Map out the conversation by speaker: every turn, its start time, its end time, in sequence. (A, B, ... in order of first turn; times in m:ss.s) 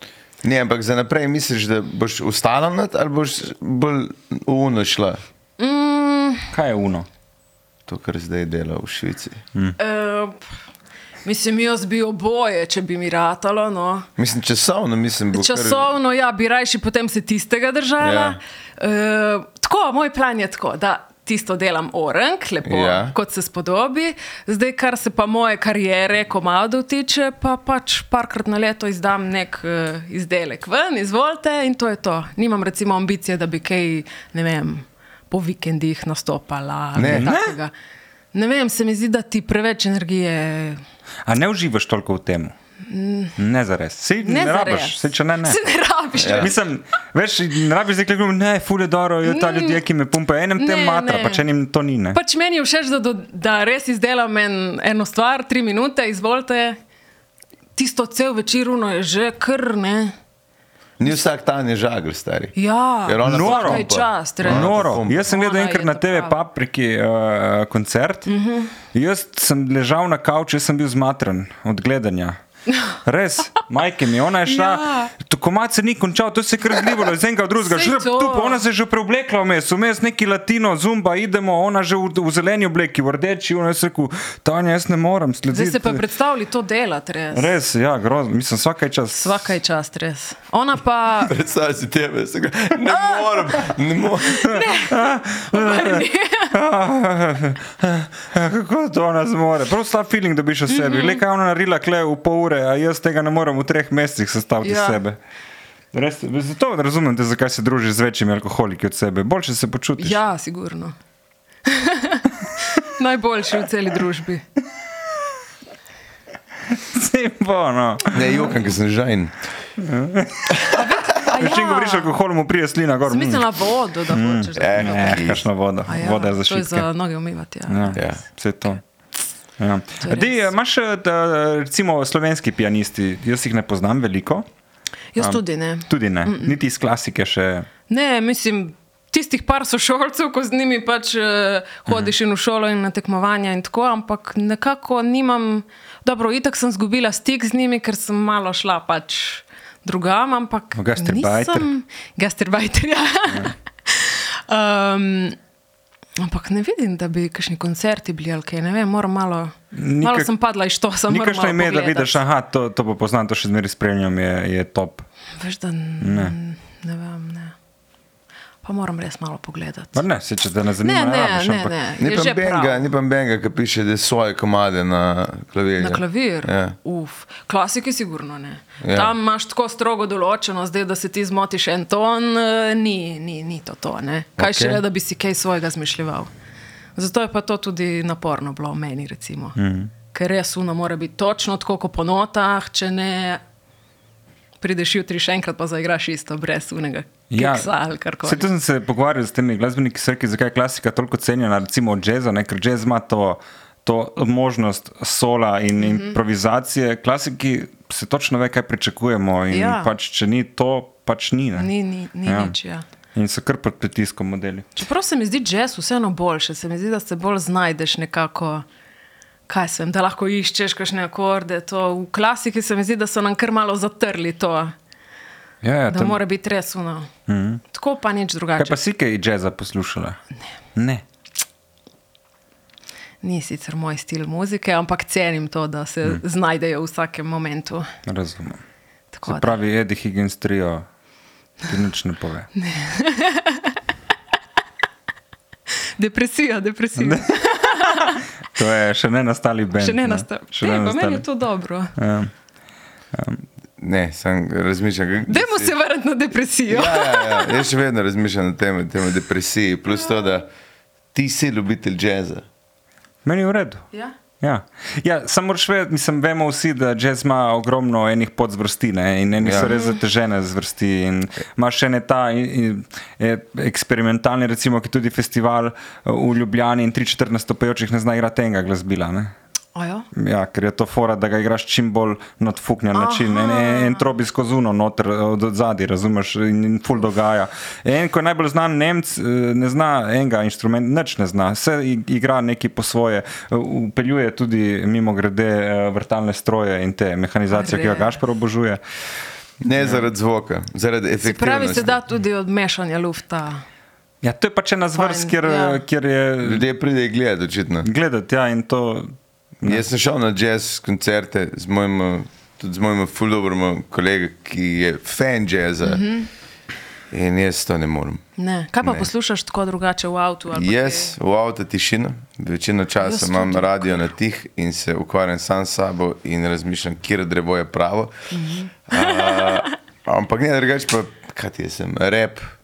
0:00.4-0:05.2 A
0:05.6-0:06.5 B
0:06.5-0:07.1 C
0:07.9-0:09.4 A
0:09.8-0:10.4 B
0:11.2-0:14.1 B
0:14.2-0:15.9 A
0:15.3-0:37.7 B
0:18.0-0:18.4 A
0:22.6-0:23.1 A
0:37.0-0:37.3 A
0:37.0-0:37.5 C
0:38.3-0:40.8 B
0:41.2-0:42.5 C
0:42.9-0:43.4 B
0:43.4-0:45.6 C
0:44.2-0:46.5 B
0:46.2-0:46.5 A
0:46.4-0:52.2 C
0:49.2-0:49.8 B
0:50.6-0:51.4 B
0:52.1-0:56.8 B
0:57.8-1:00.1 B
1:01.0-1:05.3 A
1:02.6-1:06.4 B
1:03.2-1:08.3 C
1:08.3-1:08.7 B
1:08.9-1:12.4 C
1:13.0-1:26.0 C
1:14.5-1:15.1 B
1:17.6-1:18.6 B
1:25.5-1:27.5 B
1:27.3-1:29.4 C
1:29.1-1:31.4 B
1:31.3-1:34.5 A
1:34.3-1:36.5 B
1:34.4-1:45.2 C
1:40.7-1:41.2 B
1:44.6-1:45.0 B
1:45.9-1:50.2 C
1:50.0-1:50.9 B
1:51.6-1:54.4 B
1:56.7-1:58.4 C
1:58.1-1:59.3 A
1:59.8-2:00.7 C
2:00.7-2:02.1 B
2:01.2-2:03.6 C
2:03.1-2:08.0 B
2:04.1-2:06.9 C
2:04.5-2:05.4 A
2:07.7-2:08.8 C
2:07.9-2:08.2 A
2:09.6-2:14.4 C
2:10.0-2:10.5 B
2:15.1-2:16.5 B
2:15.2-2:17.7 C
2:17.9-2:35.4 B
2:21.9-2:22.1 C
2:30.7-2:31.7 C
2:36.2-2:42.2 B
2:39.7-2:40.3 C
2:41.1-2:45.0 C
2:45.4-2:47.5 B
2:46.0-2:46.3 C
2:48.6-2:50.0 B
2:49.9-2:51.7 C
2:50.8-2:52.8 B
2:52.0-2:56.8 A
2:55.8-3:06.3 B
2:58.8-2:59.1 A
3:04.4-3:04.8 A
3:07.0-3:09.6 B
3:09.6-3:09.9 C
3:10.1-3:13.4 B
3:14.6-3:18.5 B
3:17.3-3:17.7 C
3:18.2-3:31.7 C
3:25.8-3:26.2 B
3:29.5-3:29.9 B
3:31.6-3:32.8 B
3:32.2-3:32.5 C
3:33.1-3:34.7 C
3:34.8-3:38.6 B
3:39.5-3:44.7 B
3:45.6-3:46.2 C
3:45.9-3:47.1 B
3:47.3-3:47.6 C
3:47.7-3:48.8 B
3:48.6-3:50.2 C
3:50.7-3:51.0 C
3:53.2-3:57.9 B
3:58.0-3:58.6 C
3:59.1-3:59.5 B
3:59.2-4:00.8 C
4:01.6-4:02.5 C
4:02.6-4:03.8 B
4:06.0-4:08.2 B
4:07.0-4:11.2 C
4:09.8-4:11.9 B
4:12.0-4:12.3 C
4:13.1-4:13.4 C
4:13.8-4:15.7 A
4:15.3-4:17.6 B
4:16.7-4:20.5 A
4:21.1-4:22.4 A
4:23.2-4:23.8 C
4:24.4-4:39.3 C
4:29.4-4:29.7 A
4:29.6-4:30.0 B
4:39.7-4:40.0 B
4:40.1-4:58.8 C
4:42.9-4:44.0 B
4:57.5-4:58.2 B
4:59.6-5:02.0 A
4:59.8-5:00.0 C
5:01.2-5:03.6 B
5:04.2-5:06.6 C
5:04.9-5:05.8 B
5:06.4-5:07.9 A
5:07.8-5:09.8 C
5:09.6-5:16.0 A
5:15.8-5:16.3 B
5:17.1-5:18.2 A
5:18.4-5:21.1 B
5:18.8-5:19.1 A
5:20.5-5:28.1 A
5:23.0-5:24.1 B
5:28.3-5:29.7 B
5:28.9-5:32.5 A